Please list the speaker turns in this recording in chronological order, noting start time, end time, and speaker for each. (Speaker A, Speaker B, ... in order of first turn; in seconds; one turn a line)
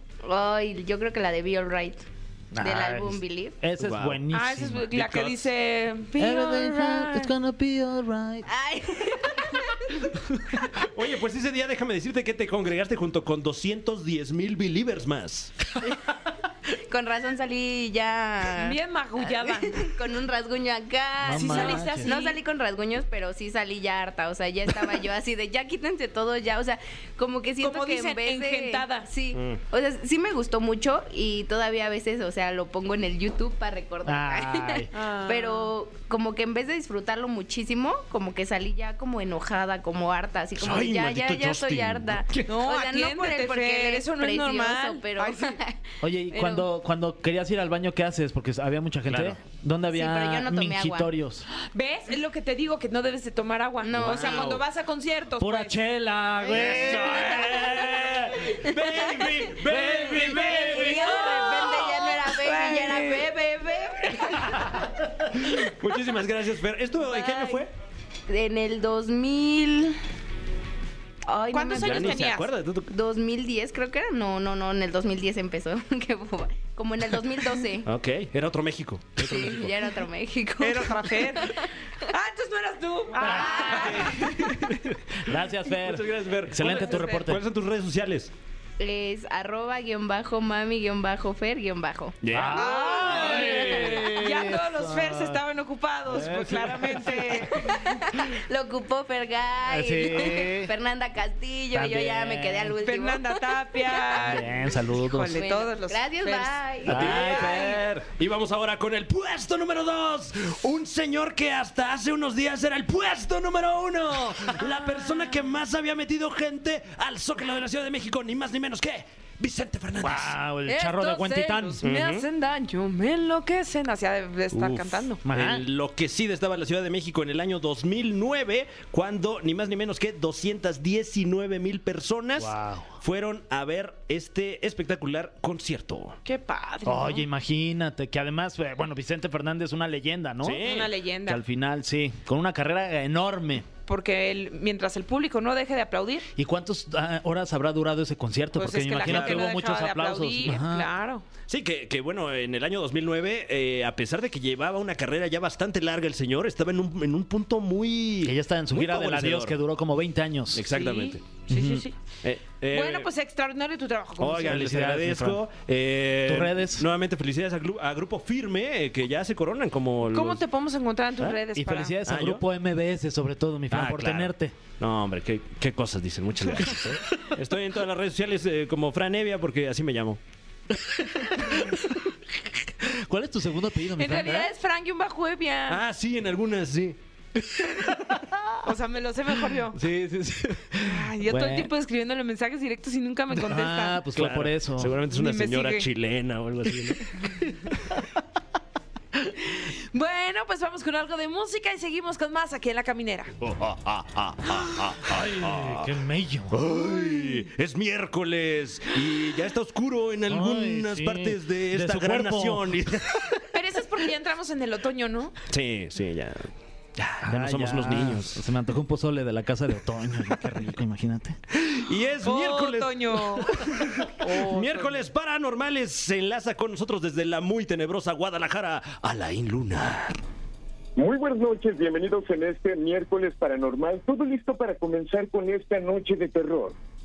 Speaker A: 0.2-2.0
Speaker B: 2.5-4.9
Speaker A: 2.6-3.6
Speaker C: 3.8-4.2
Speaker D: 4.3-7.3
Speaker C: 4.9-5.4
Speaker B: 6.2-8.4
Speaker A: 8.4-9.8
Speaker C: 10.8-15.5
Speaker A: 16.7-45.8
Speaker D: 18.6-19.9
Speaker B: 21.2-22.1
Speaker D: 21.3-22.4
Speaker D: 27.6-29.1
Speaker C: 29.3-29.6
Speaker B: 34.0-34.9
Speaker D: 34.9-35.7
Speaker C: 40.6-42.6
Speaker D: 42.5-45.6
Speaker B: 46.0-51.5
Speaker A: 46.3-46.7
Speaker C: 49.1-49.4
Speaker A: 49.9-51.1
Speaker D: 51.5-55.8
Speaker A: 53.8-54.6
Speaker C: 53.9-54.6
Speaker B: 55.4-57.3
Speaker D: 56.4-57.6
Speaker C: 56.5-61.3
Speaker A: 58.7-59.3
Speaker D: 60.1-63.3
Speaker A: 60.3-64.6
Speaker C: 64.4-67.7
Speaker A: 67.1-67.5
Speaker A: 68.3-70.0
Speaker A: 71.2-72.2
Speaker D: 71.5-72.5
Speaker C: 71.7-72.9
Speaker A: 72.9-77.9
Speaker C: 77.8-79.8
Speaker A: 79.2-81.7
Speaker D: 80.6-84.7
Speaker A: 83.2-84.1
Speaker C: 83.5-84.9
Speaker B: 85.2-87.4
Speaker C: 85.6-88.3
Speaker D: 86.8-87.2
Speaker A: 88.8-92.2
Speaker C: 92.2-94.0
Speaker B: 92.3-95.4
Speaker D: 92.5-97.9
Speaker C: 96.1-97.0
Speaker B: 96.1-97.5
Speaker A: 97.5-104.3
Speaker B: 99.7-100.7
Speaker B: 101.7-102.8
Speaker D: 102.8-107.7
Speaker B: 104.2-105.3
Speaker A: 105.3-107.0
Speaker B: 106.8-107.8
Speaker C: 106.9-120.3
Speaker B: 120.0-121.8
Speaker D: 120.7-125.2
Speaker C: 121.8-122.2
Speaker C: 124.5-136.2
Speaker B: 125.2-125.6
Speaker B: 132.4-132.9
Speaker D: 136.2-137.2
Speaker B: 136.8-140.6
Speaker C: 140.4-140.9
Speaker D: 140.6-141.4
Speaker B: 141.2-143.7
Speaker D: 143.9-146.3
Speaker B: 146.3-150.9
Speaker D: 148.6-151.2
Speaker C: 149.0-149.5
Speaker C: 151.5-159.6
Speaker B: 158.2-160.7
Speaker C: 160.5-161.3
Speaker D: 160.7-161.9
Speaker B: 161.5-161.8
Speaker C: 162.2-163.1
Speaker D: 162.7-164.6
Speaker C: 164.2-170.4
Speaker B: 164.4-165.4
Speaker B: 166.3-166.8
Speaker D: 170.1-171.9
Speaker B: 171.5-174.5
Speaker C: 172.1-172.4
Speaker C: 173.7-180.2
Speaker B: 180.9-182.0
Speaker B: 182.8-184.5
Speaker D: 184.0-185.8
Speaker C: 185.7-187.0
Speaker B: 187.8-188.6
Speaker D: 188.6-189.8
Speaker B: 189.7-191.7
Speaker D: 190.8-194.0
Speaker B: 193.4-195.0
Speaker C: 194.2-197.1
Speaker D: 195.1-195.8
Speaker D: 199.4-203.3
Speaker C: 203.4-205.9
Speaker B: 205.0-206.6
Speaker C: 206.5-213.4
Speaker B: 210.3-212.7
Speaker D: 213.5-215.3
Speaker C: 215.5-218.4
Speaker B: 217.2-221.4
Speaker C: 221.5-230.2
Speaker D: 222.2-225.0
Speaker E: 230.9-236.8